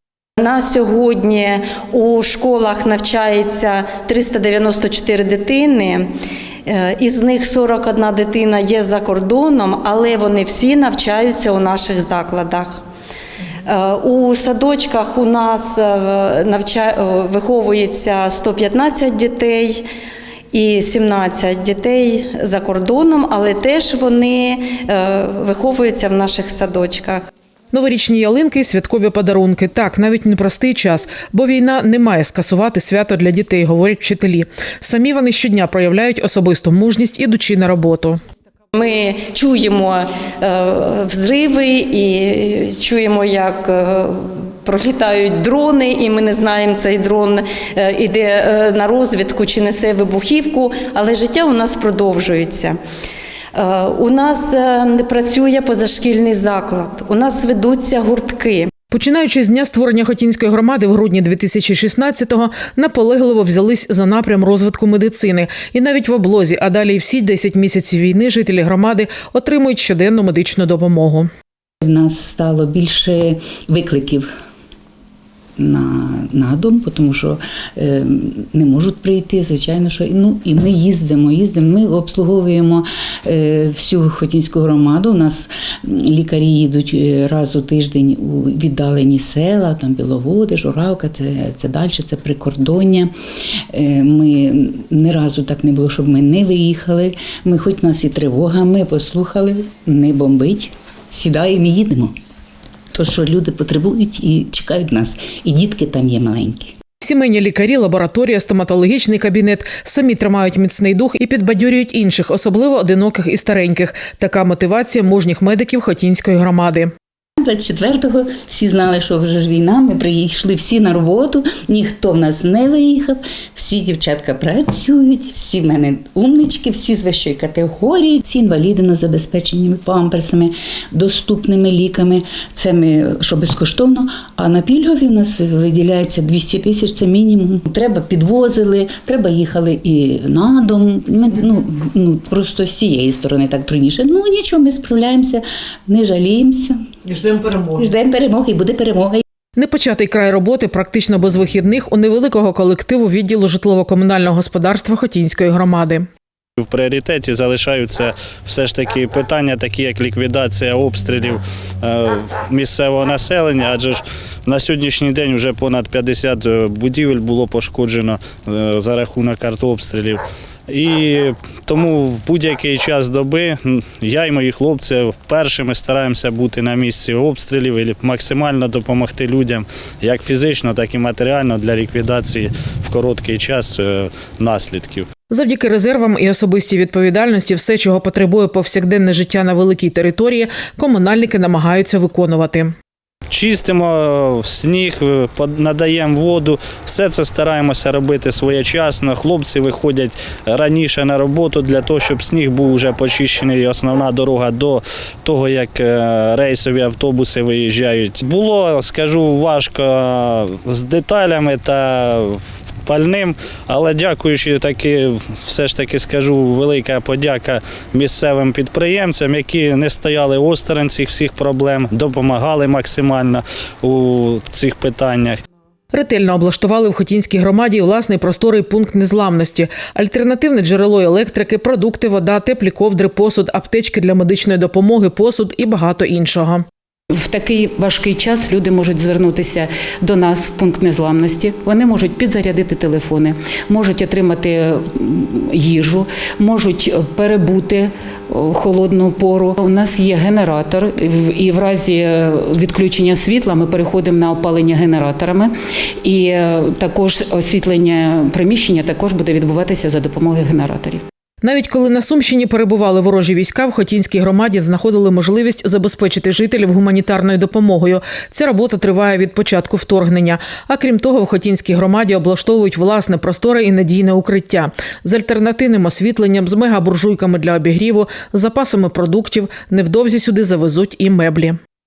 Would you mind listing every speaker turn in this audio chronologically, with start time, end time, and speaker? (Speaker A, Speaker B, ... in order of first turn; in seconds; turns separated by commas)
Speaker A: 0.4-6.1, Speaker A: 6.7-12.8, Speaker A: 13.6-19.8, Speaker A: 20.5-27.2, Speaker B: 27.7-38.2, Speaker A: 38.7-52.8, Speaker A: 53.5-58.7, Speaker B: 58.9-71.3, Speaker C: 71.8-74.3, Speaker C: 75.6-93.1, Speaker C: 93.7-102.1, Speaker C: 102.9-106.7, Speaker B: 107.0-116.9, Speaker C: 117.4-146.8, Speaker C: 147.6-149.2, Speaker B: 149.6-156.1, Speaker D: 156.6-185.1, Speaker B: 185.3-192.7, Speaker D: 193.3-225.4, Speaker B: 225.9-236.6, Speaker E: 237.1-255.5, Speaker E: 256.0-261.0, Speaker B: 261.4-281.6